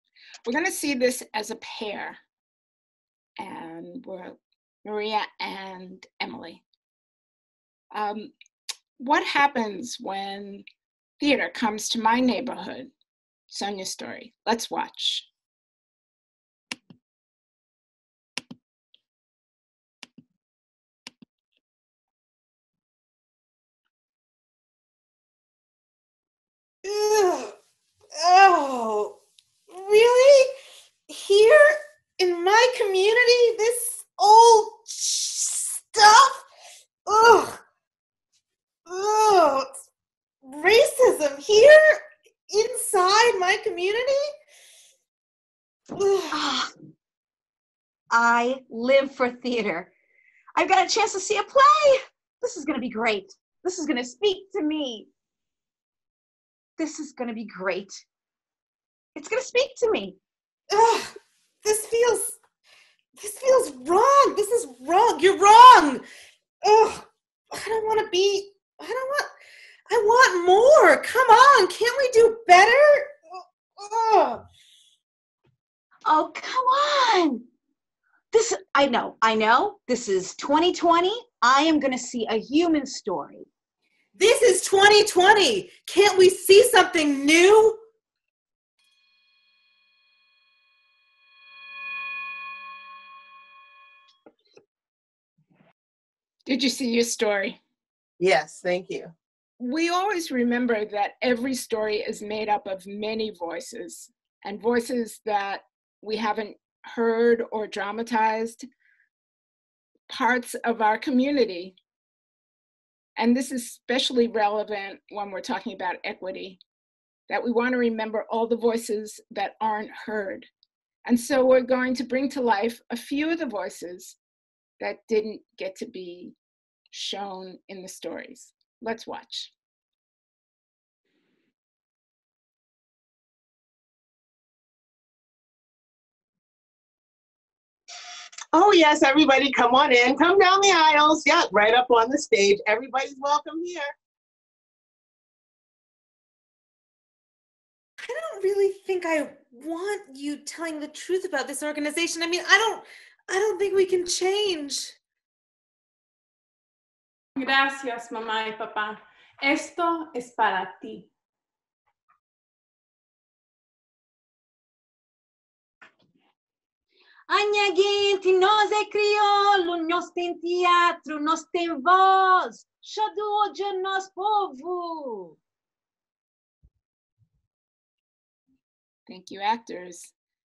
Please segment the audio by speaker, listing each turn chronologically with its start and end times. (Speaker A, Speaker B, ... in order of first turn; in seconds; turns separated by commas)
Speaker A: 0.5-2.2, Speaker A: 3.4-6.6, Speaker A: 7.9-8.3, Speaker A: 9.0-10.6, Speaker A: 11.2-12.9, Speaker A: 13.5-15.3, Speaker B: 26.8-27.6, Speaker B: 28.1-29.2, Speaker B: 29.7-30.5, Speaker B: 31.1-36.5, Speaker B: 37.1-37.6, Speaker B: 38.9-39.7, Speaker B: 40.4-44.3, Speaker B: 45.9-46.4, Speaker C: 46.3-46.7, Speaker C: 48.1-49.9, Speaker C: 50.6-55.1, Speaker C: 56.8-58.0, Speaker C: 59.1-60.2, Speaker B: 60.7-62.4, Speaker B: 63.2-66.0, Speaker B: 66.6-69.3, Speaker B: 69.9-73.2, Speaker B: 73.8-74.4, Speaker C: 76.1-77.5, Speaker C: 78.3-83.5, Speaker B: 84.2-87.8, Speaker A: 96.5-97.6, Speaker D: 98.2-99.1, Speaker A: 99.6-108.6, Speaker A: 110.1-111.8, Speaker A: 113.2-116.6, Speaker A: 117.3-120.5, Speaker A: 121.1-124.2, Speaker A: 124.8-126.3, Speaker A: 126.9-129.5, Speaker D: 138.5-143.9, Speaker B: 148.0-155.0, Speaker E: 157.4-161.1, Speaker C: 167.3-175.4, Speaker A: 179.1-180.1